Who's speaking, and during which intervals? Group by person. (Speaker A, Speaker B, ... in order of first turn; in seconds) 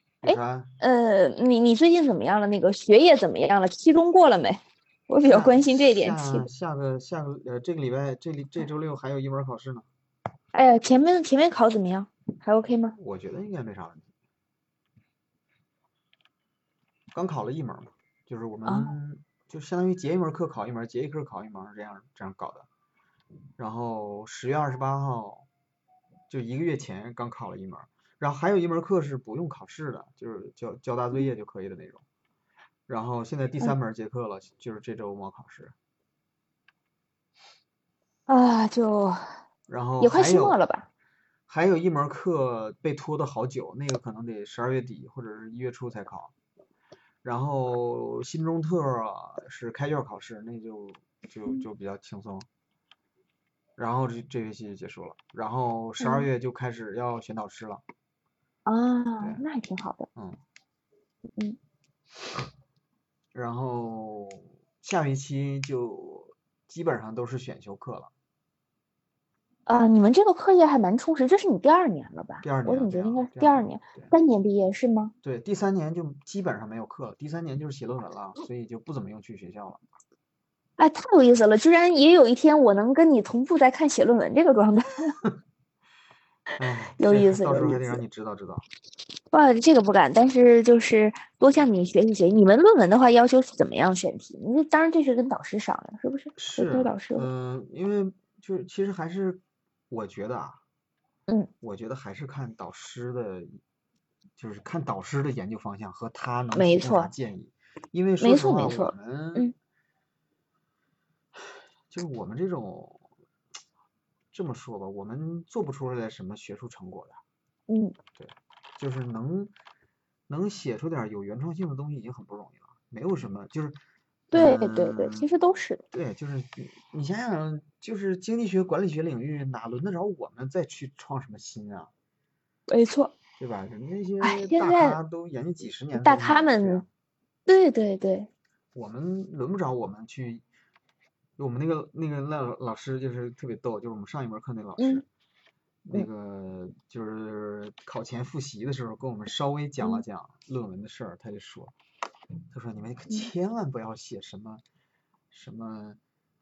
Speaker A: 0.2-0.7, 5.2-9.9, 13.0-14.1, 17.1-22.7, 23.6-25.5, 26.3-32.0, 32.9-35.7, 39.7-40.6, 41.5-46.3, 47.2-52.5, 53.8-57.8, 63.3-68.1, 72.4-74.1, 75.2-79.8, 86.6-88.6, 96.3-100.6, 101.6-103.6, 104.4-109.5, 111.9-113.1, 114.3-117.2, 118.2-119.5, 120.3-123.8, 124.3-125.3, 125.9-131.9, 133.4-136.9, 138.8-140.4, 141.4-145.0, 145.8-151.7, 152.5-154.6, 155.3-156.0
Speaker B: 0.2-6.5, 10.5-13.0, 38.3-39.2, 40.0-40.9, 56.0-56.3, 58.7-60.1, 69.7-75.1, 80.8-85.1, 87.0-88.0, 89.3-97.3, 106.5-107.1, 108.2-109.5, 117.7-117.9, 124.3-125.8, 132.7-133.1, 134.2-135.0, 135.9-136.8, 137.5-138.3, 144.8-145.0